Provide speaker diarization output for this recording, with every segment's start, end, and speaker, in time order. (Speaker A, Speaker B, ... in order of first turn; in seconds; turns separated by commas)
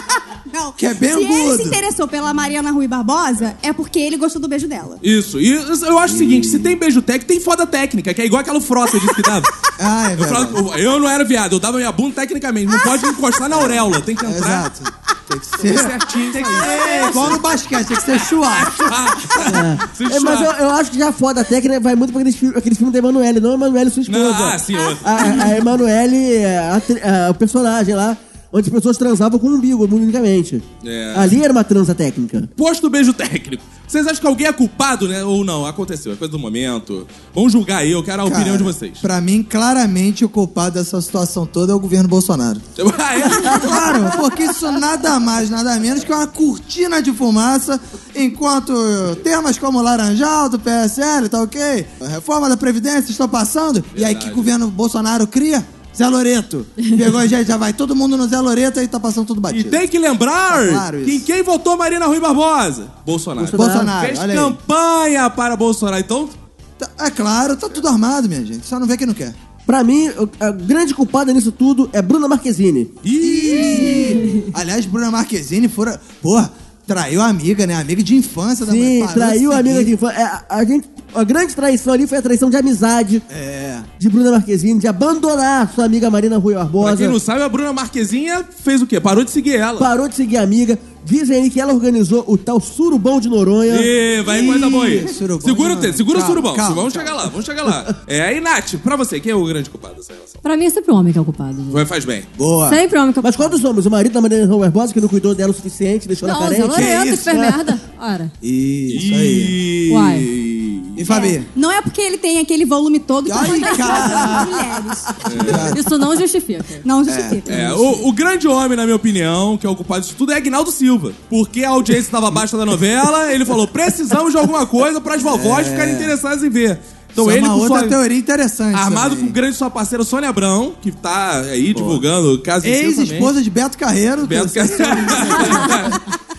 Speaker A: 0.5-5.0, Speaker B: 0.8-1.8, Speaker C: 5.0-9.5, Speaker B: 6.1-6.7, Speaker B: 9.8-10.6, Speaker C: 10.2-14.7, Speaker B: 13.5-19.4, Speaker C: 15.6-17.5, Speaker C: 18.1-20.5, Speaker D: 19.4-32.5, Speaker C: 24.1-25.6, Speaker C: 30.8-31.4, Speaker C: 32.6-39.0, Speaker B: 38.2-42.6, Speaker C: 42.8-43.9, Speaker B: 43.4-59.8, Speaker C: 53.9-54.5, Speaker C: 59.5-66.4, Speaker B: 60.5-61.3, Speaker D: 63.4-64.0, Speaker B: 63.4-64.5, Speaker B: 66.8-69.3, Speaker D: 69.7-72.9, Speaker C: 73.0-74.3, Speaker B: 73.2-79.9, Speaker E: 74.0-74.5, Speaker D: 78.6-83.2, Speaker B: 83.3-83.9, Speaker D: 84.0-87.2, Speaker C: 86.8-89.9, Speaker D: 89.8-93.9, Speaker C: 93.7-100.4, Speaker B: 94.2-97.3, Speaker E: 100.4-101.8, Speaker C: 101.7-102.3, Speaker B: 102.3-102.8, Speaker E: 102.6-103.5, Speaker D: 103.2-107.5, Speaker E: 106.2-108.3, Speaker B: 106.7-107.5, Speaker B: 108.4-109.5, Speaker C: 108.9-111.0, Speaker E: 109.9-110.3, Speaker B: 111.0-111.5, Speaker A: 111.0-115.2, Speaker B: 113.2-114.7, Speaker C: 115.2-115.8, Speaker B: 115.2-115.9, Speaker E: 115.7-116.8, Speaker A: 116.8-118.0, Speaker B: 117.0-117.4, Speaker C: 117.5-128.0, Speaker B: 125.2-126.1, Speaker B: 127.2-129.3, Speaker C: 128.7-133.3, Speaker B: 131.7-132.0, Speaker B: 132.6-135.9, Speaker C: 134.2-136.0